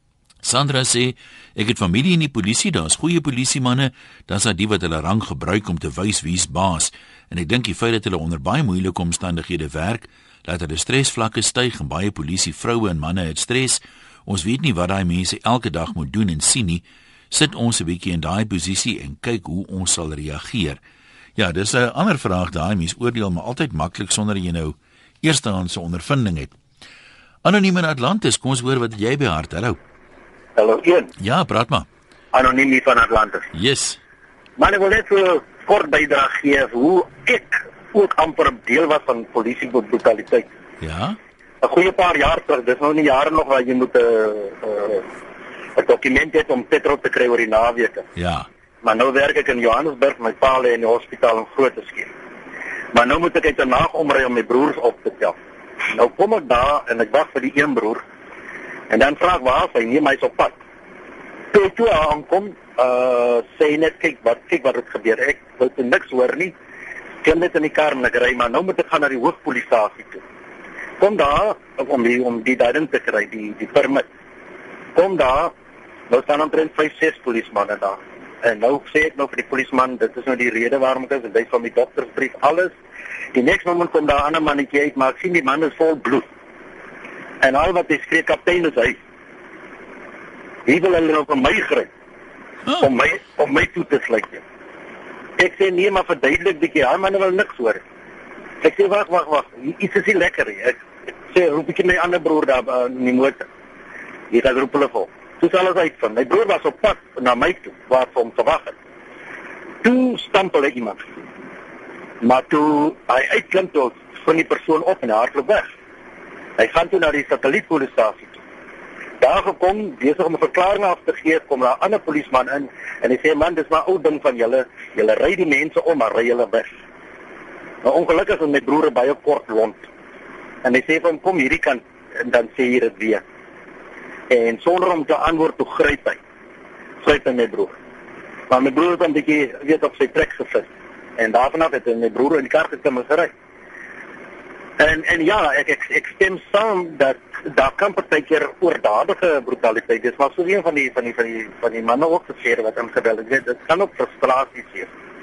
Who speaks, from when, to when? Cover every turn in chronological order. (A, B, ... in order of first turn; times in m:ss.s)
0:00.4-0:20.8 A
0:21.4-0:26.6 A
0:27.4-0:29.8 A
0:30.6-0:31.1 B
0:31.2-0:31.9 A
0:32.3-0:33.5 B
0:33.5-0:34.0 A
0:34.6-0:40.5 B
0:40.8-0:41.2 A
0:41.6-0:45.0 B
0:45.8-0:48.1 B
0:48.2-0:48.5 A
0:48.8-0:52.1 B
0:52.9-0:55.4 B
0:55.9-0:58.0 B
0:58.9-1:00.6 B
1:01.5-1:06.5 B
1:07.2-1:10.2 B
1:11.0-1:14.0 B
1:15.0-1:15.5 B
1:16.1-1:22.8 B
1:23.4-1:26.3 B
1:27.4-1:29.0 B
1:30.7-1:31.9 B
1:32.8-1:34.4 B
1:35.4-1:37.8 B
1:38.6-1:43.4 B
1:44.3-1:48.8 B
1:49.8-1:51.0 B
1:52.2-1:55.7 B
1:56.6-1:58.4 B
1:59.2-2:06.7 B
2:07.8-2:09.8 B
2:10.6-2:13.2 B
2:14.3-2:16.2 B
2:17.0-2:17.8 B
2:18.5-2:23.3 B
2:24.8-2:34.9 B